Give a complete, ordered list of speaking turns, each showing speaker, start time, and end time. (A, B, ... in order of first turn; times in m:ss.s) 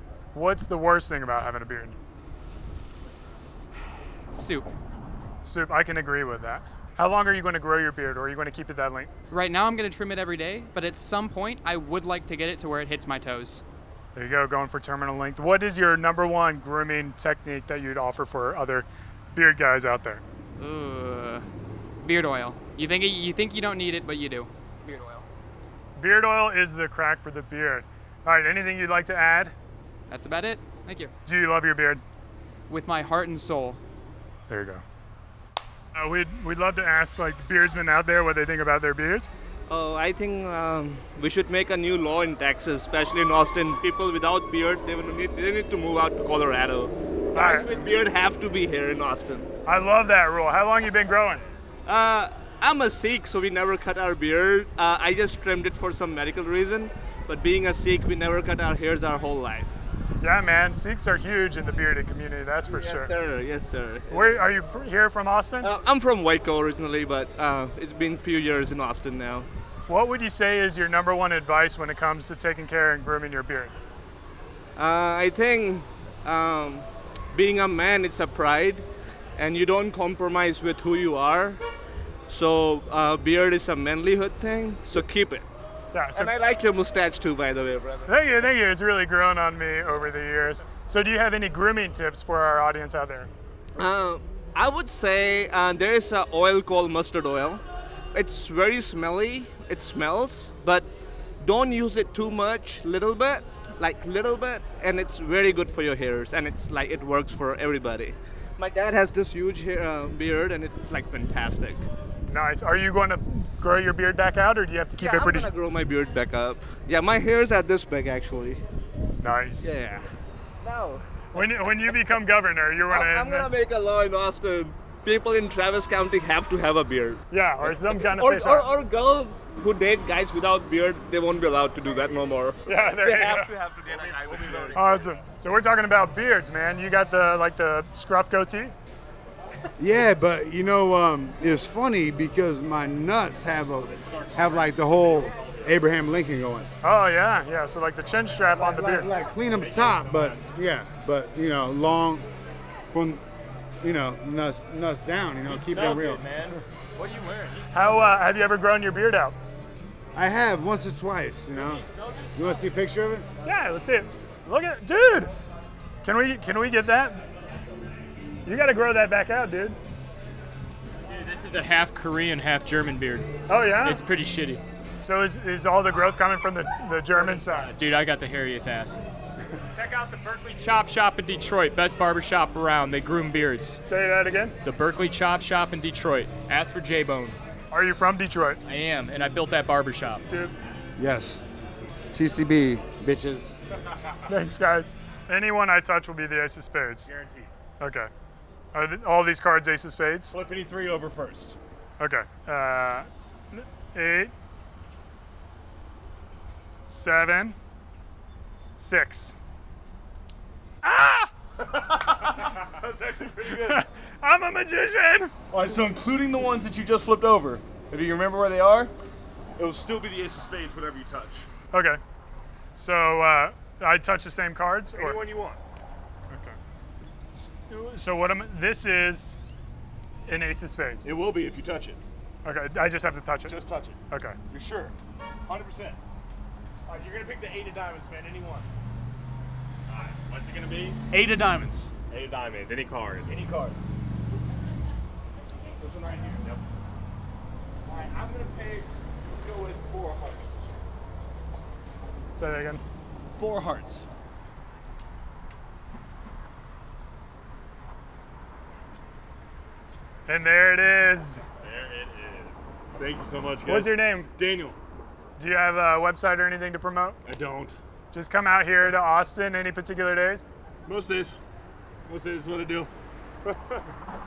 0:00.3-0:02.0 A
0:04.3-0:04.7 B
0:05.4-0:09.1 A
0:09.3-0:13.6 B
0:14.2-0:20.2 A
0:20.6-0:21.4 B
0:22.0-0:25.2 B
0:26.0-0:29.5 A
0:30.1-0:31.1 B
0:31.2-0:32.0 A
0:32.7-0:33.8 B
0:34.5-0:34.8 A
0:35.9-0:39.3 A
0:39.7-0:49.5 C
0:47.4-0:47.8 A
0:49.7-0:51.4 A
0:51.9-0:59.7 C
1:00.2-1:03.1 A
1:02.7-1:04.5 C
1:04.1-1:05.7 A
1:05.6-1:09.5 C
1:09.9-1:13.7 A
1:14.8-1:18.9 C
1:19.4-1:21.6 C
1:22.3-1:25.5 C
1:25.9-1:26.3 A
1:26.2-1:28.1 C
1:28.1-1:33.3 A
1:33.8-1:37.6 C
1:38.1-1:40.9 C
1:41.4-1:51.9 C
1:52.3-1:55.5 A
1:55.0-1:58.6 C
1:59.2-1:59.7 A
1:59.6-2:01.9 C
2:01.4-2:03.5 A
2:02.9-2:14.8 C
2:07.3-2:08.7 A
2:12.7-2:13.5 A
2:13.9-2:15.2 D
2:14.7-2:18.7 A
2:19.8-2:26.7 E
2:23.8-2:25.8 D
2:26.8-2:29.1 A
2:28.6-2:32.3 E
2:29.4-2:30.4 D
2:32.9-2:33.2 E
2:33.8-2:36.6 E
2:35.5-2:37.7 D
2:37.7-2:39.4 A
2:40.2-2:43.3 E
2:43.4-2:45.3 A
2:46.0-2:47.2 A
2:48.5-2:49.8 A
2:51.1-2:54.6 F
2:53.5-2:54.0 A
2:55.0-2:57.7 A
2:57.1-2:59.0 F
2:59.7-3:03.8 F
3:03.8-3:04.6 A
3:04.6-3:07.4 F
3:07.7-3:08.6 A
3:08.6-3:10.2 F
3:10.3-3:10.5 A
3:11.0-3:11.5 E
3:12.1-3:13.6 E
3:14.3-3:17.1 A
3:17.1-3:17.5 D
3:17.8-3:18.1 A
3:18.7-3:20.4 A
3:20.3-3:21.6 D
3:22.0-3:24.3 A
3:26.9-3:27.6 A
3:28.8-3:29.4 A
3:30.8-3:31.3 A
3:31.6-3:33.8 D
3:33.5-3:35.3 A
3:35.5-3:38.9 D
3:39.6-3:41.5 D
3:41.7-3:42.0 A
3:42.8-3:45.2 A
3:45.0-3:45.6 D
3:46.3-3:46.6 A
3:47.5-3:49.4 A
3:50.3-3:51.1 A
3:51.0-3:52.0 D
3:52.4-3:53.6 A
3:53.5-3:54.0 D
3:54.1-3:54.4 A
3:54.5-3:54.9 D
3:55.5-3:56.0 D
3:56.9-3:58.7 D
3:59.9-4:03.8 D
4:05.8-4:06.6 D
4:07.9-4:10.7 D
4:12.4-4:12.8 A
4:13.4-4:14.1 D
4:20.3-4:21.4 A
4:21.6-4:24.8 D
4:23.7-4:24.3 A
4:25.4-4:27.2 A
4:27.2-4:27.8 D
4:28.1-4:30.4 A
4:30.9-4:31.4 D
4:32.1-4:32.9 D
4:33.5-4:33.8 D